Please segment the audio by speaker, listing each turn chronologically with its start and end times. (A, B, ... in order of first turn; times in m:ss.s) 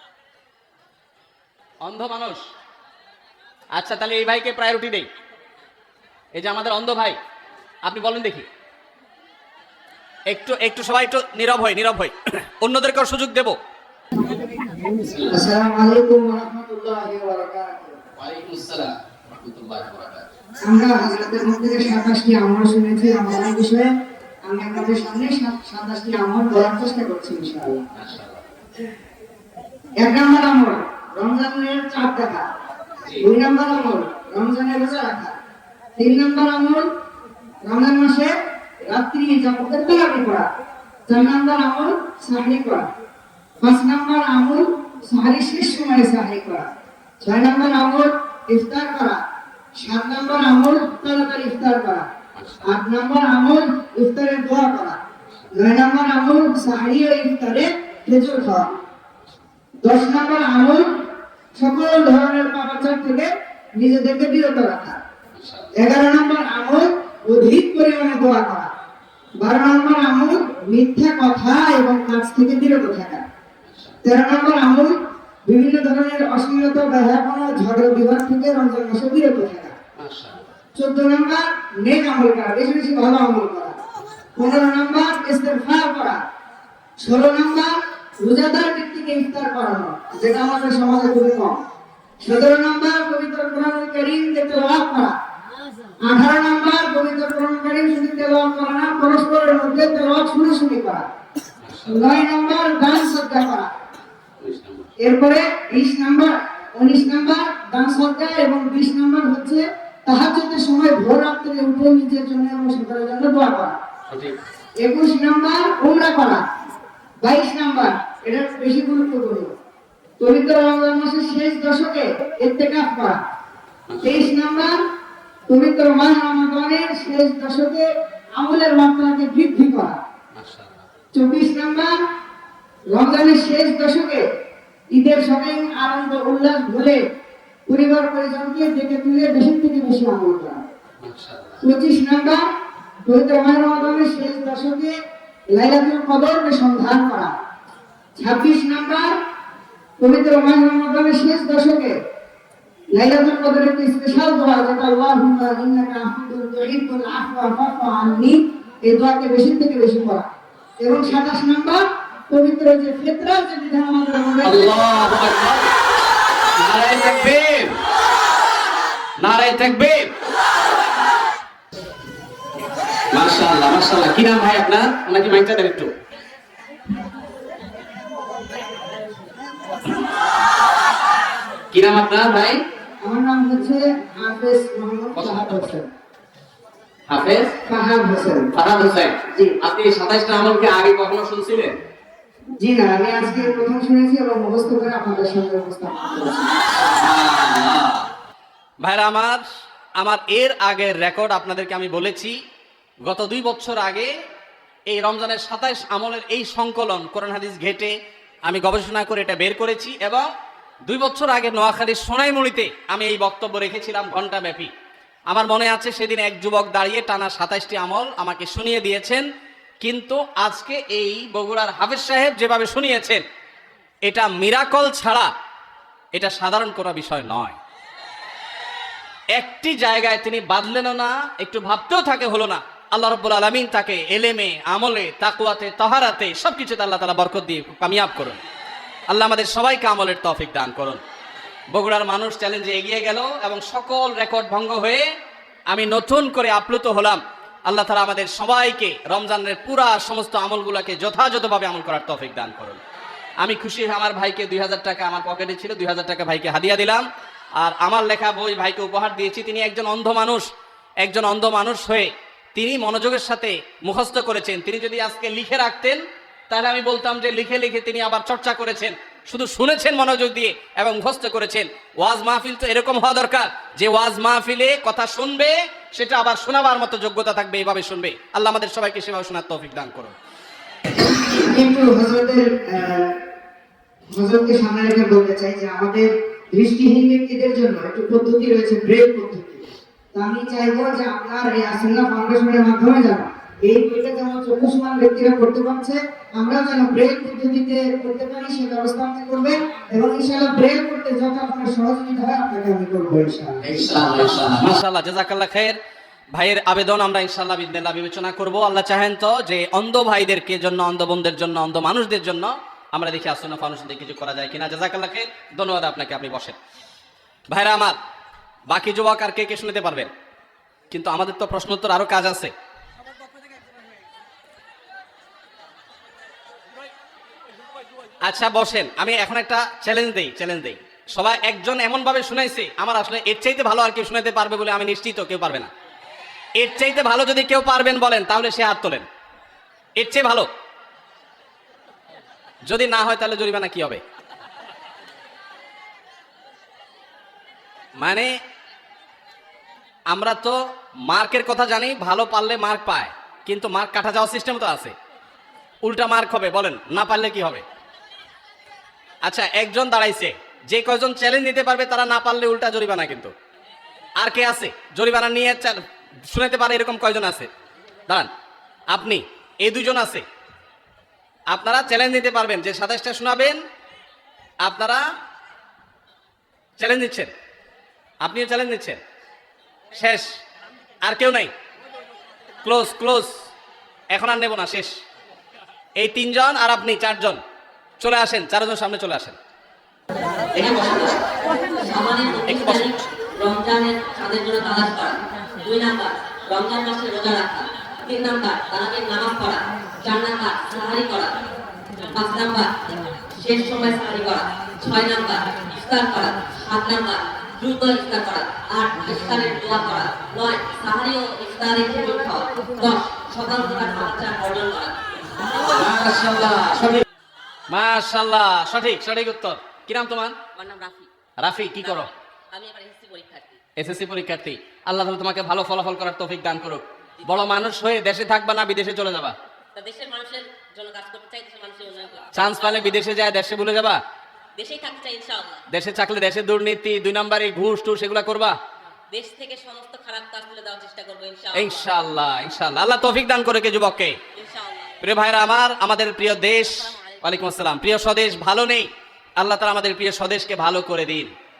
0:01.8-0:02.4 A
0:03.7-0:05.1 A
0:06.3-0:07.2 A
0:07.8-0:08.4 A
0:10.3-0:13.6 A
0:15.0-0:15.4 A
0:15.3-0:18.0 B
0:18.2-0:20.3 A
0:20.6-0:23.9 B
0:24.4-0:27.8 B
0:27.9-0:28.4 A
0:30.0-0:32.5 B
0:33.2-0:35.4 B
0:36.0-0:36.8 B
0:37.6-0:40.5 B
0:41.1-0:42.9 B
0:43.6-0:46.7 B
0:47.2-0:49.2 B
0:49.7-0:52.1 B
0:52.3-0:52.7 A
0:52.6-0:55.0 B
0:55.5-0:58.7 B
0:59.8-1:05.0 B
1:05.4-1:05.7 A
1:05.7-1:08.7 B
1:09.4-1:13.2 B
1:13.6-1:14.0 A
1:14.0-1:19.8 B
1:20.0-1:20.5 A
1:20.8-1:23.8 B
1:24.4-1:26.2 B
1:27.0-1:31.6 B
1:32.2-1:35.1 B
1:36.0-1:41.1 B
1:41.6-1:42.2 A
1:41.9-1:43.7 B
1:44.4-1:44.9 A
1:45.0-1:53.8 B
1:54.1-1:54.4 A
1:54.8-1:56.4 B
1:57.2-1:59.5 B
2:00.2-2:03.2 B
2:03.9-2:04.2 A
2:04.0-2:04.8 B
2:05.5-2:10.0 B
2:10.3-2:10.9 A
2:11.1-2:12.0 B
2:12.9-2:14.2 B
2:14.9-2:17.0 B
2:17.7-2:20.6 B
2:21.0-2:21.6 A
2:21.6-2:22.4 B
2:23.0-2:24.9 B
2:25.5-2:27.3 B
2:28.2-2:29.2 B
2:30.0-2:32.0 B
2:32.9-2:40.3 B
2:40.8-2:44.6 B
2:44.4-2:45.7 A
2:46.6-2:47.8 A
2:49.2-2:50.1 A
2:53.1-2:55.9 A
3:01.7-3:02.6 A
3:03.0-3:05.9 B
3:05.1-3:05.7 A
3:07.1-3:07.6 A
3:07.6-3:08.5 B
3:08.5-3:11.8 A
3:09.3-3:09.6 B
3:12.6-3:16.5 B
3:16.9-3:18.1 A
3:18.8-3:19.4 A
3:20.0-3:22.4 A
3:23.0-3:24.1 A
3:24.9-3:27.9 A
3:28.4-3:30.3 A
3:30.8-3:34.7 A
3:35.3-3:39.3 A
3:39.8-3:43.2 A
3:44.0-3:45.3 A
3:46.1-3:47.6 A
3:49.3-3:58.4 A
3:59.1-4:01.0 A
4:01.7-4:05.0 A
4:05.7-4:12.8 A
4:13.4-4:17.0 A
4:17.6-4:20.5 A
4:21.0-4:40.1 A
4:41.1-4:43.2 B
4:44.1-5:04.2 B
5:03.6-5:05.8 A
5:06.3-5:16.6 A
5:17.5-5:18.0 A
5:18.7-5:20.1 A
5:20.9-5:22.5 A
5:28.2-5:35.7 A
5:36.6-5:39.0 A
5:40.0-5:40.5 A
5:42.7-5:44.0 A
5:48.0-5:48.3 A
5:50.1-5:54.9 A
5:55.8-5:57.6 A
5:59.2-6:03.3 A
6:04.2-6:07.5 A
6:08.9-6:10.2 A
6:11.5-6:13.6 A
6:14.6-6:15.0 A
6:16.8-6:17.3 A
6:18.2-6:19.0 A
6:19.9-6:20.3 A
6:21.0-6:21.5 A
6:22.6-6:23.3 A
6:24.1-6:24.9 A
6:26.0-6:27.4 A
6:28.0-6:29.4 A
6:30.6-6:31.0 A
6:30.6-6:31.2 C
6:31.8-6:41.5 C
6:32.5-6:32.9 A
6:42.1-6:42.8 C
6:43.3-6:55.0 C
6:55.7-6:57.0 A
6:57.7-7:00.3 A
7:00.5-7:01.1 C
7:01.4-7:02.1 A
7:01.8-7:03.6 C
7:03.8-7:09.3 A
7:09.8-7:13.0 C
7:12.3-7:14.0 A
7:14.6-7:15.6 C
7:15.7-7:18.5 A
7:19.1-7:21.9 C
7:21.5-7:24.2 A
7:24.3-7:25.0 C
7:25.0-7:31.3 A
7:26.4-7:27.3 C